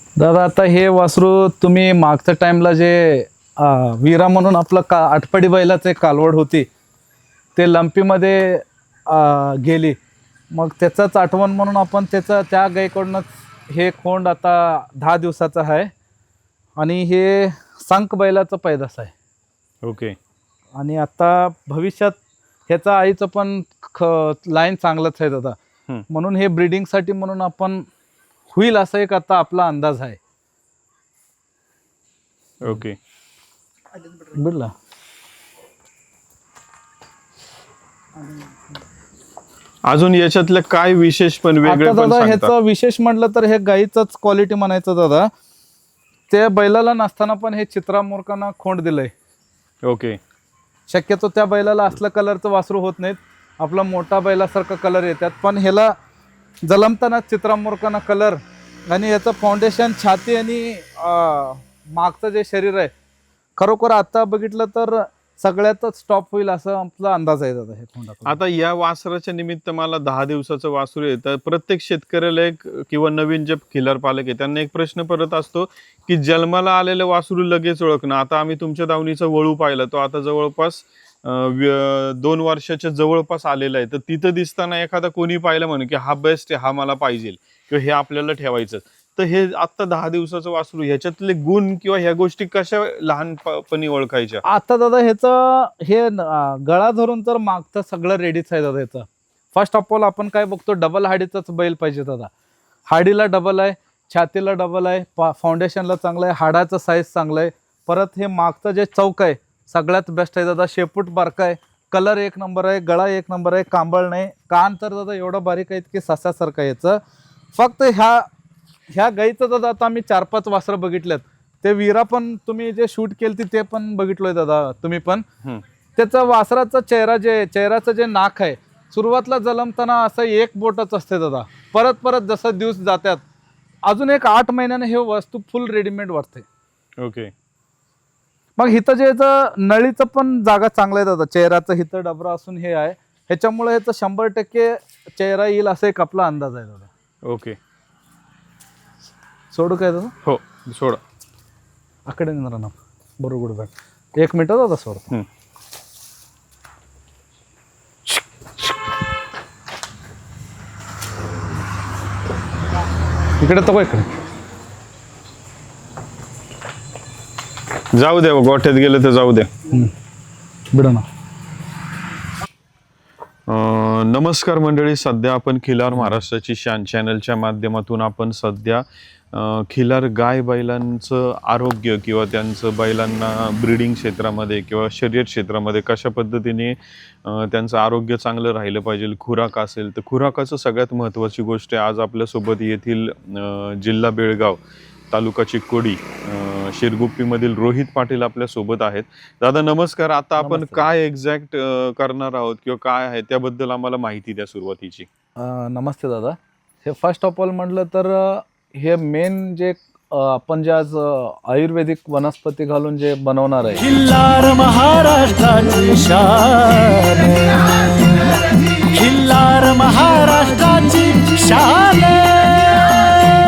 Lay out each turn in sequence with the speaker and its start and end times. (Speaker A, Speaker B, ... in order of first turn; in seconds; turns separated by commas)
Speaker A: 0.2-6.7, Speaker A: 7.5-10.0, Speaker A: 10.5-15.9, Speaker A: 16.8-19.1, Speaker B: 19.8-20.1, Speaker A: 20.8-22.1, Speaker A: 22.7-25.6, Speaker A: 26.1-27.8, Speaker A: 28.5-30.2, Speaker B: 32.6-33.0, Speaker A: 34.2-34.7, Speaker B: 39.9-42.5, Speaker A: 41.6-45.3, Speaker A: 46.3-49.1, Speaker B: 49.8-50.2, Speaker A: 50.9-55.9, Speaker A: 56.6-62.9, Speaker A: 63.6-68.4, Speaker B: 68.2-94.4, Speaker A: 94.4-102.3, Speaker A: 102.9-117.0, Speaker A: 117.5-118.2, Speaker A: 118.9-125.2, Speaker A: 126.0-133.2, Speaker A: 133.8-136.4, Speaker B: 137.0-137.3, Speaker A: 138.6-146.9, Speaker B: 147.2-147.6, Speaker A: 149.5-150.1, Speaker B: 150.2-151.0, Speaker A: 152.1-155.1, Speaker A: 163.4-164.1, Speaker B: 167.9-169.5, Speaker A: 170.7-171.1, Speaker B: 173.5-205.1, Speaker A: 200.4-200.9, Speaker A: 205.4-213.9, Speaker C: 213.8-223.1